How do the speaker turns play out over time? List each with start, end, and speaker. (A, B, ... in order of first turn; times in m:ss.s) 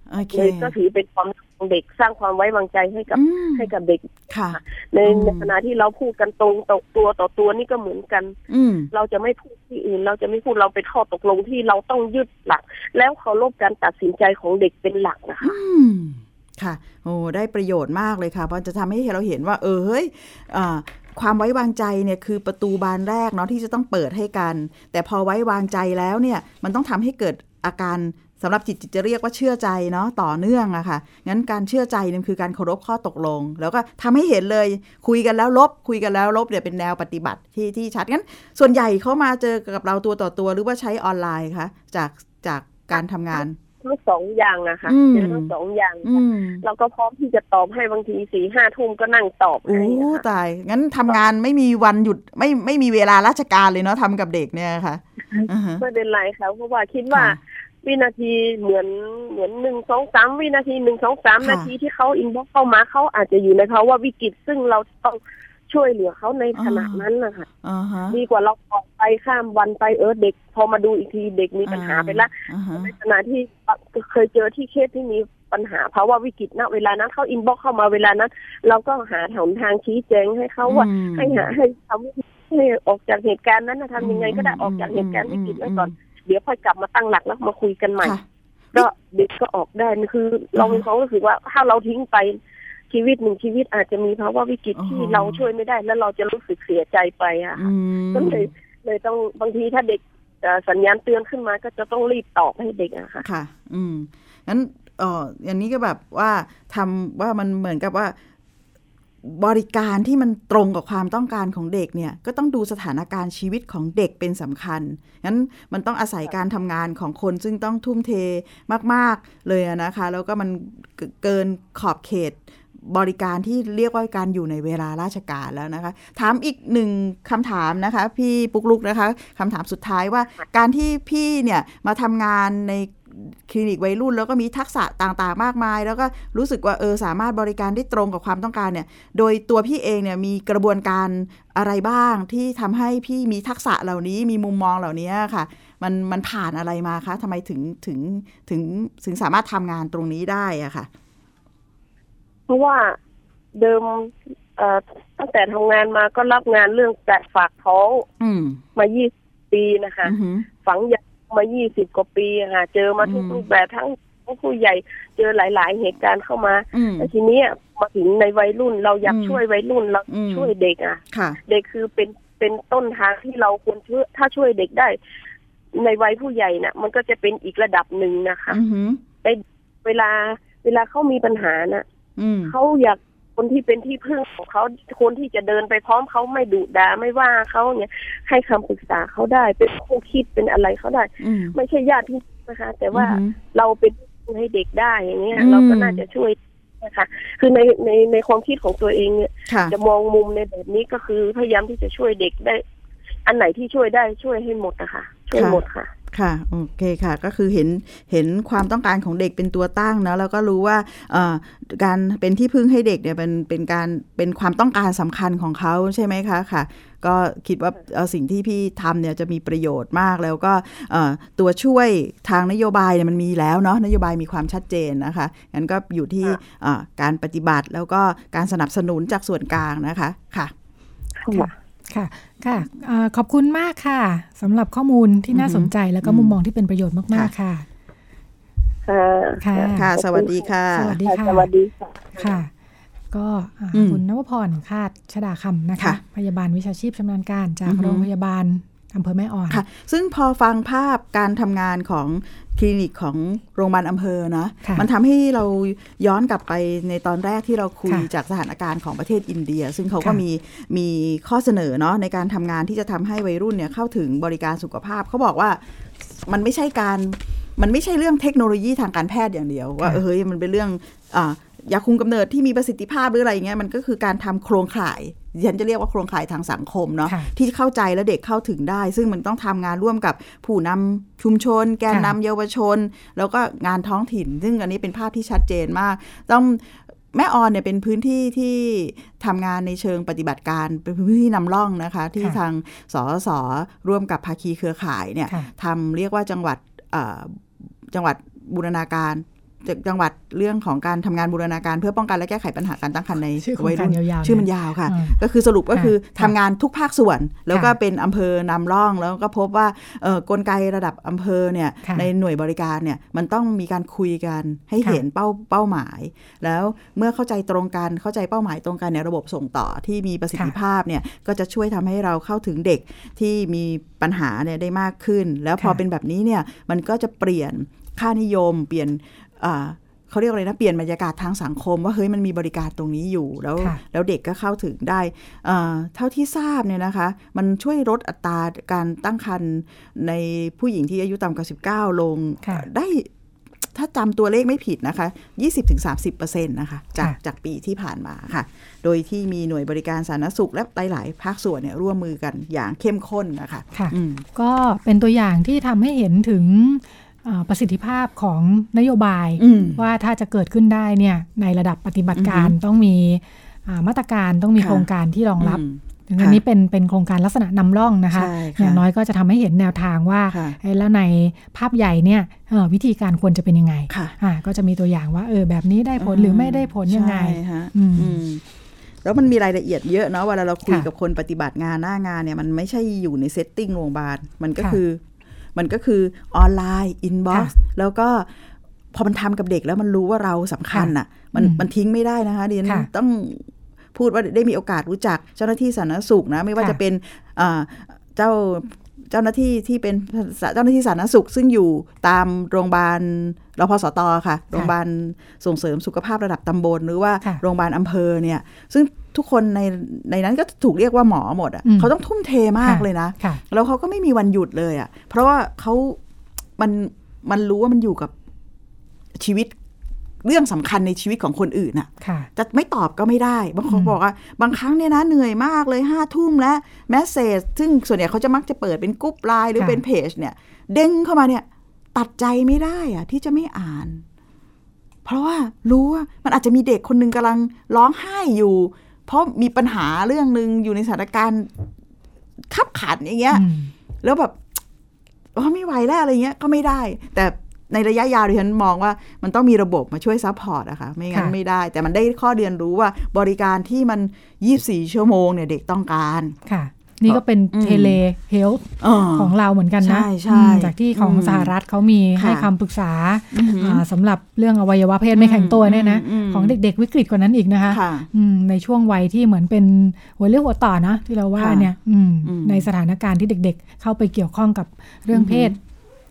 0:00.1-0:00.7 A
0:00.3-0:08.4 B
0:03.1-0:03.7 A
0:04.3-0:05.5 A
0:08.5-0:08.9 A
0:08.9-0:15.6 B
0:15.4-0:43.6 A
0:43.3-0:50.2 B
0:44.9-0:45.5 A
0:46.0-0:46.6 A
0:49.7-0:55.8 A
0:55.3-1:07.5 B
0:57.1-0:57.4 A
1:01.4-1:01.7 A
1:06.6-1:07.0 A
1:07.6-1:08.2 A
1:08.1-1:28.2 B
1:11.6-1:12.9 A
1:20.7-1:21.5 A
1:24.0-1:25.9 A
1:28.0-1:28.9 A
1:28.7-1:32.4 B
1:30.6-1:30.9 A
1:32.9-1:43.2 B
1:34.8-1:35.4 A
1:37.6-1:38.5 A
1:43.2-1:48.1 A
1:49.2-2:30.9 A
2:32.5-2:33.0 B
2:33.6-2:38.1 B
2:38.2-2:38.6 A
2:38.7-2:55.0 B
2:40.0-2:40.5 A
2:43.0-2:43.4 A
2:46.7-2:47.1 A
2:49.0-2:49.4 A
2:50.1-2:50.5 A
2:51.1-2:51.4 A
2:55.8-2:58.6 B
2:58.5-2:59.0 A
2:59.2-3:01.8 B
3:02.2-3:02.6 A
3:02.4-3:22.6 B
3:11.2-3:11.6 A
3:12.9-3:13.4 A
3:15.3-3:16.0 A
3:19.5-3:19.7 A
3:23.3-3:25.9 B
3:25.3-3:50.5 A
3:51.2-3:51.5 B
3:51.3-3:57.6 C
3:55.3-3:56.4 A
3:58.9-4:00.4 B
3:59.4-3:59.9 C
3:59.6-4:01.0 A
4:00.7-4:01.5 C
4:01.0-4:02.4 B
4:02.2-4:02.5 C
4:03.1-4:09.6 C
4:03.7-4:04.0 A
4:07.6-4:08.1 A
4:09.5-4:25.6 A
4:26.2-5:43.1 A
4:41.9-4:42.1 C
5:03.4-5:05.2 C
5:05.7-5:06.3 C
5:11.8-5:12.1 C
5:43.7-5:54.2 A
5:53.7-6:18.2 C
5:59.4-5:59.8 A
6:02.1-6:02.6 A
6:04.6-6:04.9 A
6:05.4-6:06.4 A
6:08.1-6:08.8 A
6:10.3-6:10.6 A
6:13.9-6:14.1 A
6:16.0-6:18.4 A
6:19.0-6:25.0 A
6:25.6-6:28.3 A
6:28.9-6:56.0 A
6:30.7-6:31.6 C
6:51.6-6:51.9 C
6:52.6-6:53.4 C
6:56.6-6:58.1 A
6:59.2-6:59.6 A
7:00.2-7:14.0 A
7:02.0-7:02.3 C
7:09.6-7:09.8 C
7:15.0-7:21.5 A
7:22.5-7:23.4 A
7:23.3-7:23.7 C
7:24.0-7:24.6 A
7:25.3-7:36.4 A
7:36.4-7:55.6 C
7:37.1-7:38.0 A
7:38.8-7:41.5 A
7:42.2-7:42.5 A
7:43.3-7:43.8 A
7:45.1-7:46.6 A
7:47.7-7:48.1 A
7:51.4-7:51.7 A
7:52.2-7:52.7 A
7:55.1-7:55.6 A